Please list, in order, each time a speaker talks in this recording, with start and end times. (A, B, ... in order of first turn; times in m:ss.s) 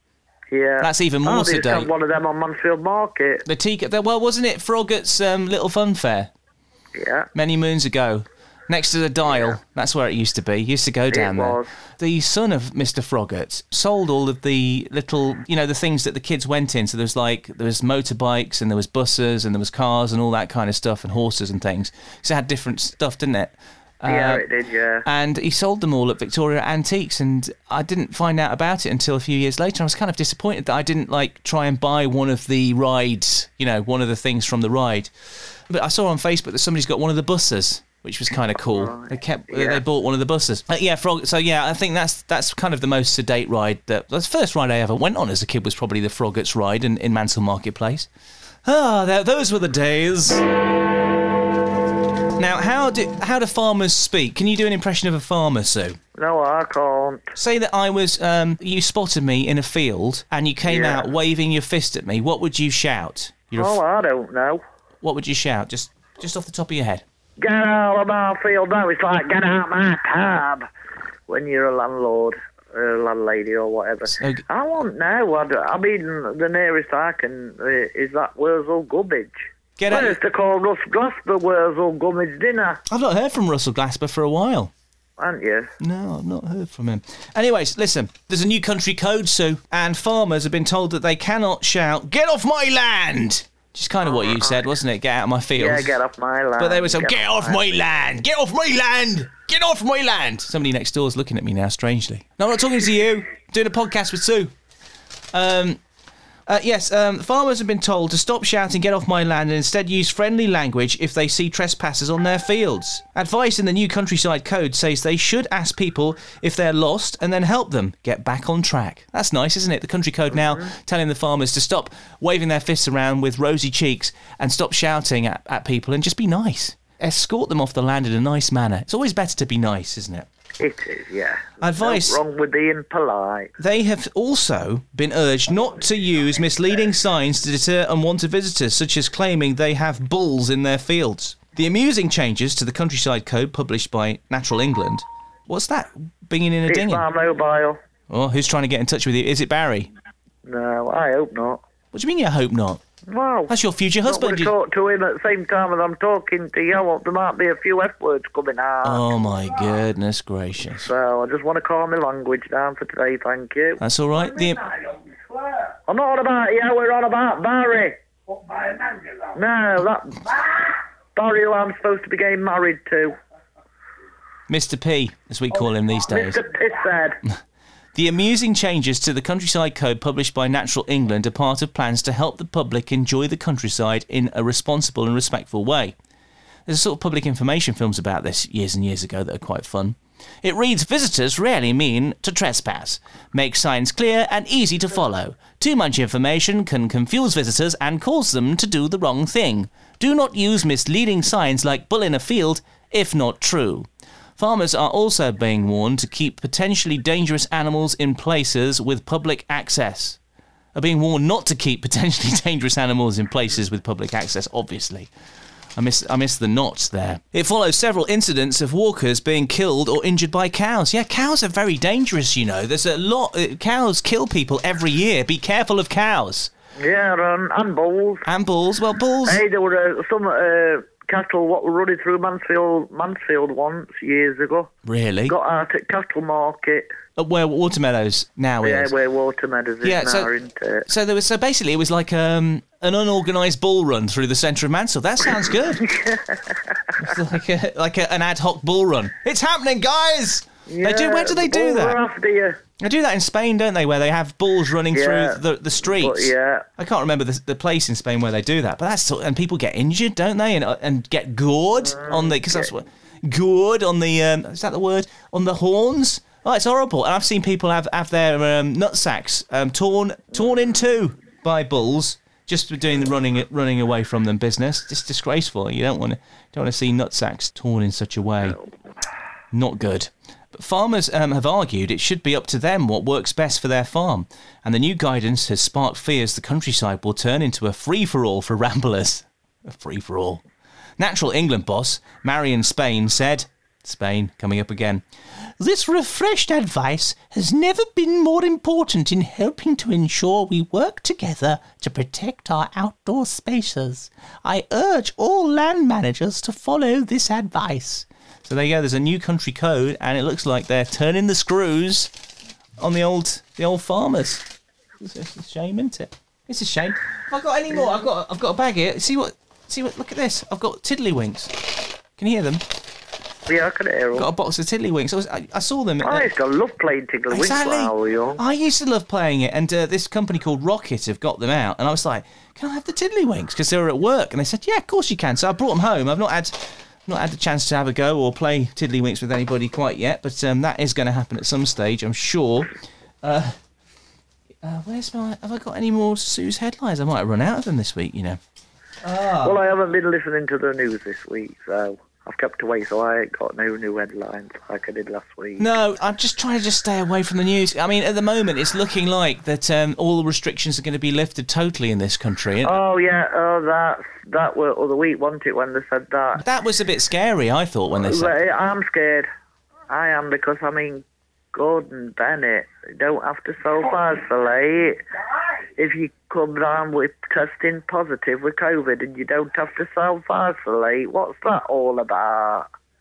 0:00.5-0:03.4 A
0:00.8-0:01.9 B
0:03.4-0:06.3 B
0:06.9-0:07.3 A
0:07.3-0:24.4 B
0:11.1-0:11.7 A
0:24.0-0:25.0 A
0:25.0-0:48.1 B
0:38.5-0:39.8 A
0:48.6-0:50.4 B
0:52.4-0:56.0 B
0:56.2-0:57.3 A
0:57.4-1:03.8 B
1:00.6-1:01.0 A
1:03.5-1:04.6 A
1:05.0-1:07.0 B
1:07.4-1:10.6 A
1:11.3-1:22.8 A
1:14.1-1:14.4 B
1:19.8-1:20.2 B
1:22.9-1:24.7 B
1:25.2-1:25.7 A
1:25.8-1:35.9 B
1:34.0-1:34.6 A
1:35.6-1:37.8 A
1:36.6-1:44.5 B
1:45.3-1:45.8 B
1:46.5-2:10.3 B
2:00.3-2:00.6 A
2:10.6-2:13.5 A
2:11.6-2:12.2 B
2:13.6-2:27.0 B
2:26.7-2:27.8 A
2:28.1-2:29.9 B
2:30.4-2:31.6 A
2:31.9-2:32.8 B
2:33.1-2:33.5 A
2:33.5-2:34.5 B
2:34.0-2:39.0 A
2:38.8-2:40.9 B
2:40.8-2:43.8 A
2:43.8-2:44.6 B
2:44.2-2:45.7 C
2:45.9-2:47.9 A
2:48.3-2:49.4 C
2:49.3-2:53.1 A
2:54.5-2:56.4 B
2:56.0-2:57.2 A
2:57.9-3:05.9 B
3:06.7-3:30.2 B
3:30.7-3:35.1 B
3:35.8-3:46.5 B
3:46.8-3:48.2 A
3:48.2-3:49.4 B
3:49.2-3:54.7 A
3:54.8-3:55.3 B
3:55.3-3:56.9 A
3:57.2-3:58.9 B
3:58.6-4:00.9 A
3:59.8-4:00.3 B
4:00.9-4:05.9 B
4:05.8-4:07.1 A
4:07.0-4:12.0 B
4:10.7-4:12.6 A
4:12.8-4:38.6 B
4:14.9-4:16.6 A
4:21.8-4:22.7 A
4:39.5-4:50.4 B
4:51.0-4:55.0 B
4:55.6-5:12.1 B
5:12.8-5:14.4 B
5:15.0-5:22.6 B
5:23.5-5:24.3 A
5:24.1-5:26.3 B
5:26.0-5:28.4 A
5:27.3-5:42.7 B
5:43.2-5:43.6 B
5:44.6-5:48.4 B
5:49.0-5:49.6 B
5:49.4-5:55.7 A
5:55.6-6:02.7 B
6:02.6-6:06.4 A
6:06.4-6:08.3 B
6:08.0-6:09.3 A
6:09.9-6:15.0 A
6:15.8-6:22.7 A